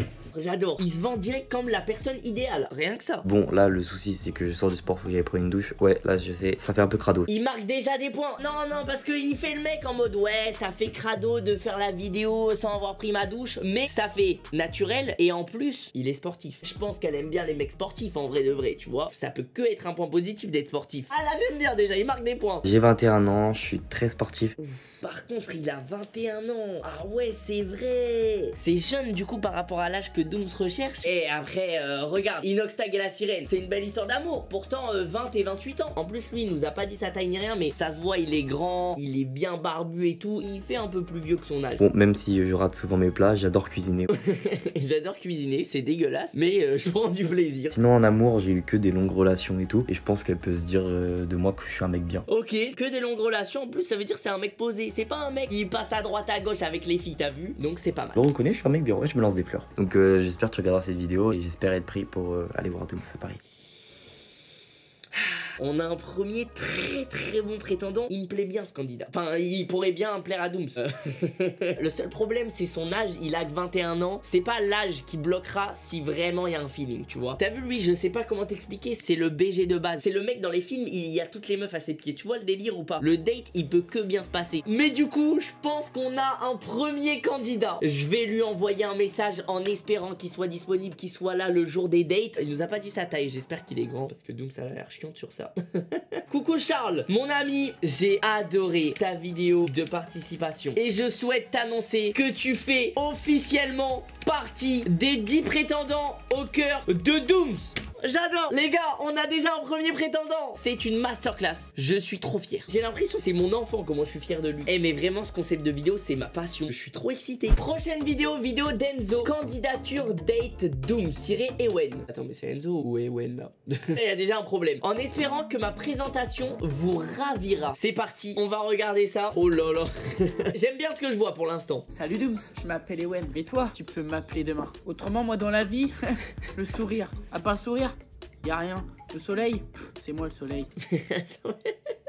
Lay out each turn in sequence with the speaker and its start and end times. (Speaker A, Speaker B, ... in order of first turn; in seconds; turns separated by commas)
Speaker A: 0.3-3.3, Speaker B: 3.2-7.3, Speaker A: 7.3-22.6, Speaker B: 22.6-24.6, Speaker A: 24.6-41.8, Speaker B: 41.8-44.1, Speaker A: 44.2-47.8, Speaker B: 47.7-52.2, Speaker A: 52.3-58.2, Speaker B: 58.1-63.4, Speaker A: 65.6-131.9, Speaker C: 131.9-140.7, Speaker A: 140.9-141.7